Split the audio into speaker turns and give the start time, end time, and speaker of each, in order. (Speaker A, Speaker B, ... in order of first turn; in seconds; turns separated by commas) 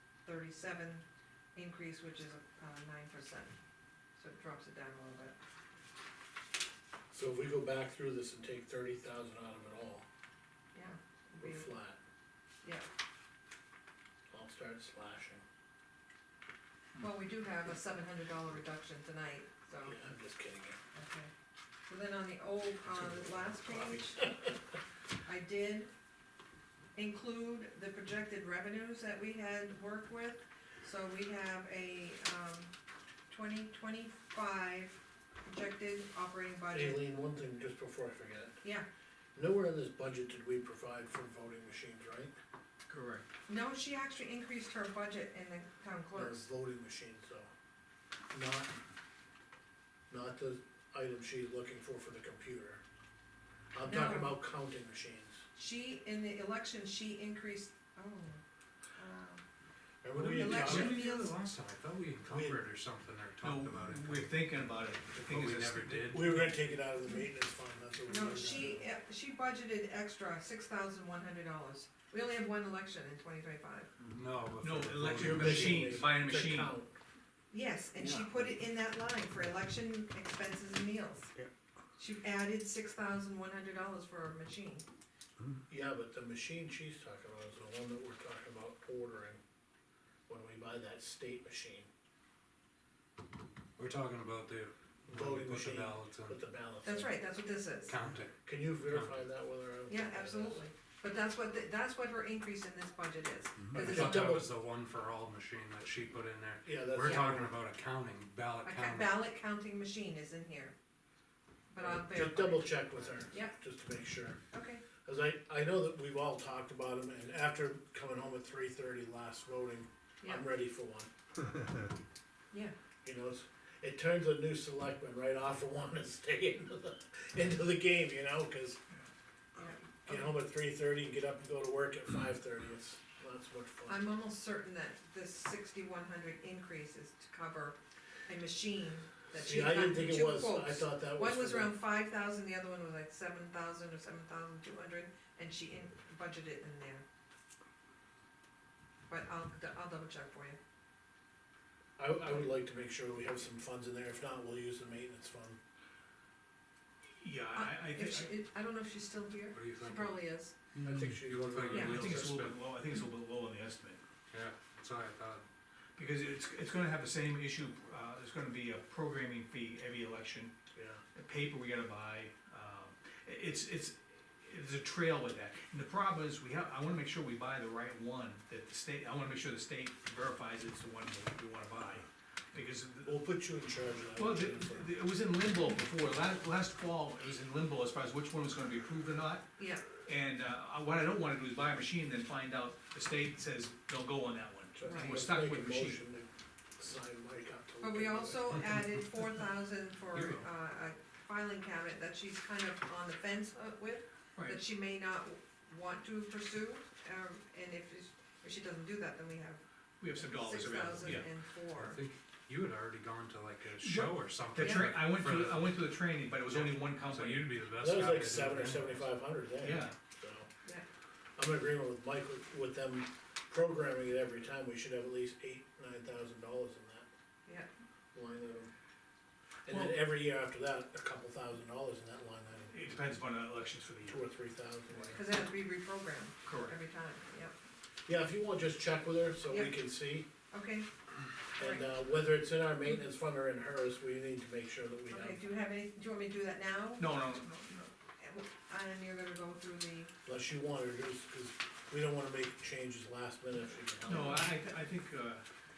Speaker A: 0.2-3.5, Speaker A: 4.2-5.4, Speaker B: 7.1-10.1, Speaker A: 10.7-11.7, Speaker B: 11.4-12.0, Speaker B: 14.3-15.4, Speaker A: 16.9-20.0, Speaker B: 19.8-20.8, Speaker A: 20.9-21.3, Speaker A: 21.9-24.3, Speaker B: 22.9-24.6, Speaker A: 25.2-25.9, Speaker A: 26.9-32.7, Speaker A: 33.3-37.0, Speaker B: 36.7-38.6, Speaker B: 39.3-42.3, Speaker C: 42.9-43.3, Speaker A: 43.5-46.4, Speaker B: 46.1-47.5, Speaker B: 48.3-48.7, Speaker B: 50.1-52.8, Speaker B: 53.7-55.4, Speaker A: 53.8-54.4, Speaker A: 55.5-58.4, Speaker A: 59.0-59.4, Speaker B: 60.0-61.0, Speaker D: 60.1-64.3, Speaker A: 60.3-61.3, Speaker B: 62.3-62.6, Speaker C: 63.4-66.5, Speaker D: 65.1-66.5, Speaker B: 66.1-68.8, Speaker A: 68.1-73.9, Speaker D: 74.1-76.1, Speaker C: 74.6-76.8, Speaker B: 75.2-77.0, Speaker A: 77.5-81.3, Speaker B: 78.0-78.5, Speaker A: 82.0-84.8, Speaker B: 85.7-89.4, Speaker B: 90.3-91.9, Speaker D: 93.8-96.4, Speaker B: 95.1-97.1, Speaker A: 96.8-97.9, Speaker D: 97.9-99.1, Speaker B: 98.4-100.6, Speaker A: 99.9-104.3, Speaker D: 103.6-109.2, Speaker B: 103.7-104.5, Speaker B: 106.6-107.5, Speaker A: 108.6-110.7, Speaker A: 111.7-113.5, Speaker B: 111.8-114.4, Speaker A: 114.5-114.8, Speaker B: 115.0-121.1, Speaker B: 123.0-128.8, Speaker A: 129.6-130.3, Speaker B: 130.1-134.0, Speaker A: 133.9-147.0, Speaker B: 139.3-141.8, Speaker A: 149.1-150.6, Speaker B: 152.0-155.6, Speaker C: 157.2-158.3, Speaker A: 157.5-160.6, Speaker D: 159.5-162.6, Speaker B: 160.8-162.3, Speaker A: 161.7-162.0, Speaker C: 161.7-164.0, Speaker D: 164.3-165.4, Speaker C: 165.9-170.5, Speaker B: 170.7-171.0, Speaker C: 171.1-183.1, Speaker B: 183.0-184.9, Speaker C: 184.2-189.5, Speaker A: 189.6-189.8, Speaker C: 190.0-196.0, Speaker B: 194.8-198.6, Speaker A: 194.8-195.2, Speaker A: 197.8-209.6, Speaker C: 200.1-200.4, Speaker C: 204.3-204.6, Speaker C: 210.0-211.3, Speaker A: 210.1-212.0, Speaker D: 211.7-215.8, Speaker C: 213.8-217.6, Speaker A: 214.6-214.9, Speaker D: 216.4-219.1, Speaker B: 217.8-220.5, Speaker C: 219.6-219.9, Speaker B: 221.4-227.1, Speaker B: 228.1-228.7, Speaker B: 229.7-232.7, Speaker C: 229.7-230.0, Speaker C: 232.7-234.2, Speaker B: 234.1-235.2, Speaker A: 235.1-237.5, Speaker C: 236.4-236.8, Speaker B: 238.1-240.3, Speaker A: 240.5-240.9, Speaker B: 241.5-245.4, Speaker A: 241.6-241.9, Speaker A: 245.1-247.1, Speaker C: 247.0-247.9, Speaker A: 248.2-250.1, Speaker B: 250.2-254.5, Speaker C: 254.0-255.4